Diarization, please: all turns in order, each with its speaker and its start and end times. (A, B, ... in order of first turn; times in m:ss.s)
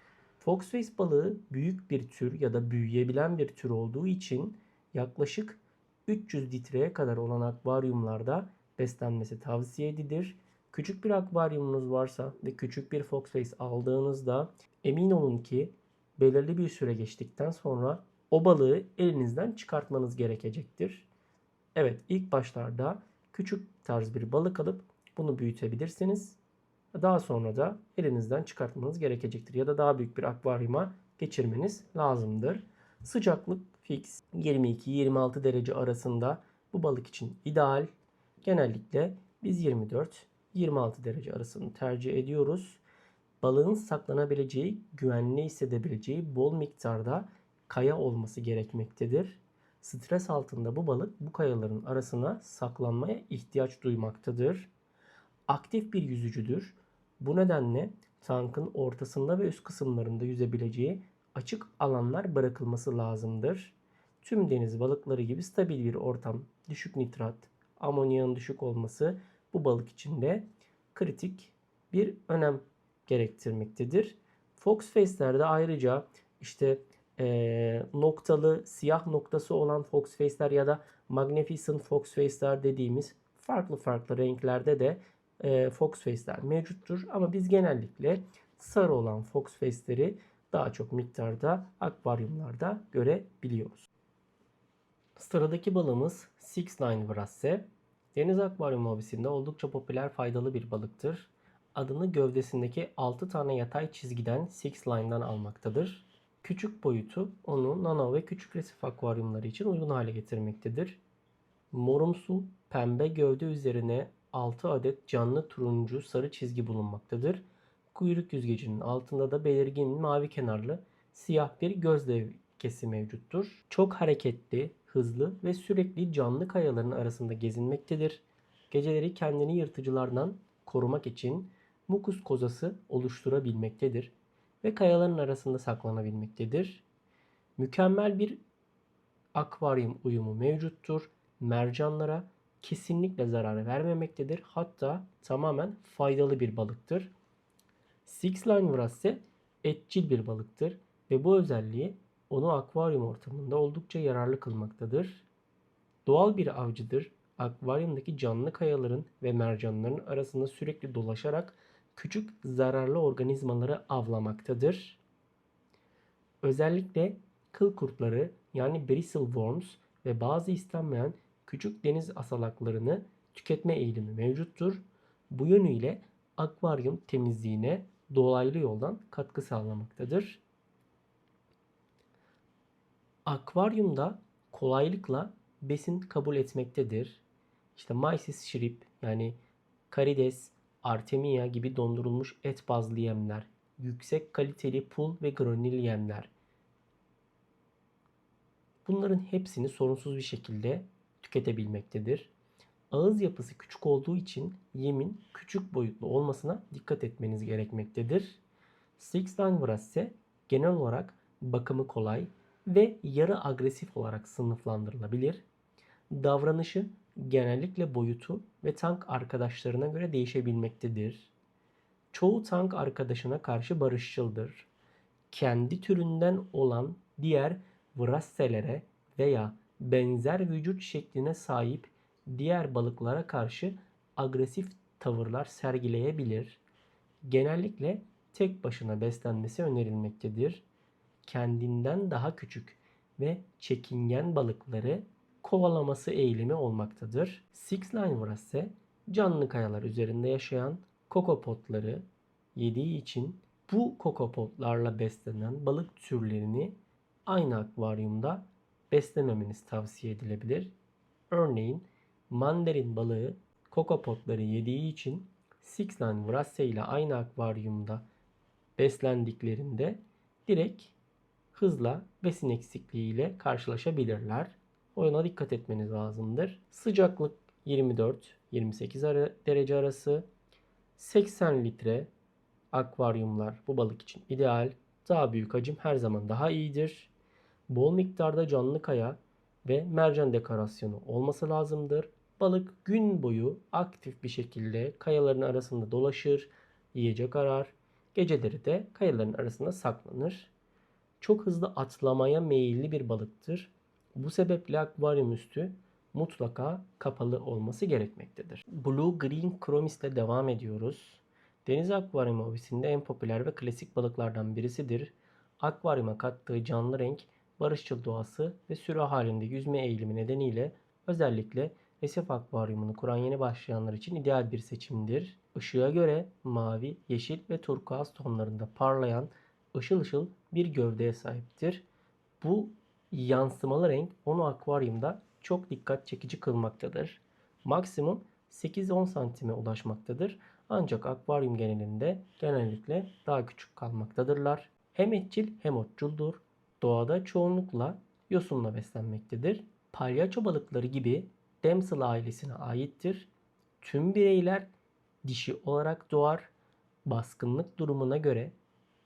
0:00.4-0:21.1 A
0:21.7-0:26.4 A
0:26.9-0:37.9 A
0:38.4-0:42.8 A
0:43.4-0:54.7 A
0:55.5-1:33.9 A
1:35.2-1:51.0 A
1:51.7-2:16.8 A
2:17.6-2:18.4 A
2:19.3-2:27.1 A
2:28.0-2:35.2 A
2:36.0-2:45.0 A
2:46.4-3:00.4 A
3:03.2-3:07.2 A
3:07.8-3:09.4 A
3:09.9-3:16.3 A
3:18.8-3:22.3 A
3:22.9-3:28.4 A
3:29.0-3:35.4 A
3:36.1-3:41.3 A
3:42.1-3:44.7 A
3:45.3-3:56.6 A
3:57.2-4:00.6 A
4:01.2-4:20.7 A
4:21.3-4:28.0 A
4:28.8-4:30.9 A
4:31.5-4:40.2 A
4:41.0-4:42.1 A
4:42.7-4:47.1 A
4:47.7-5:00.5 A
5:01.2-5:31.8 A
5:32.4-5:53.3 A
5:53.8-5:54.7 A
5:55.2-5:56.5 A
5:57.0-5:58.5 A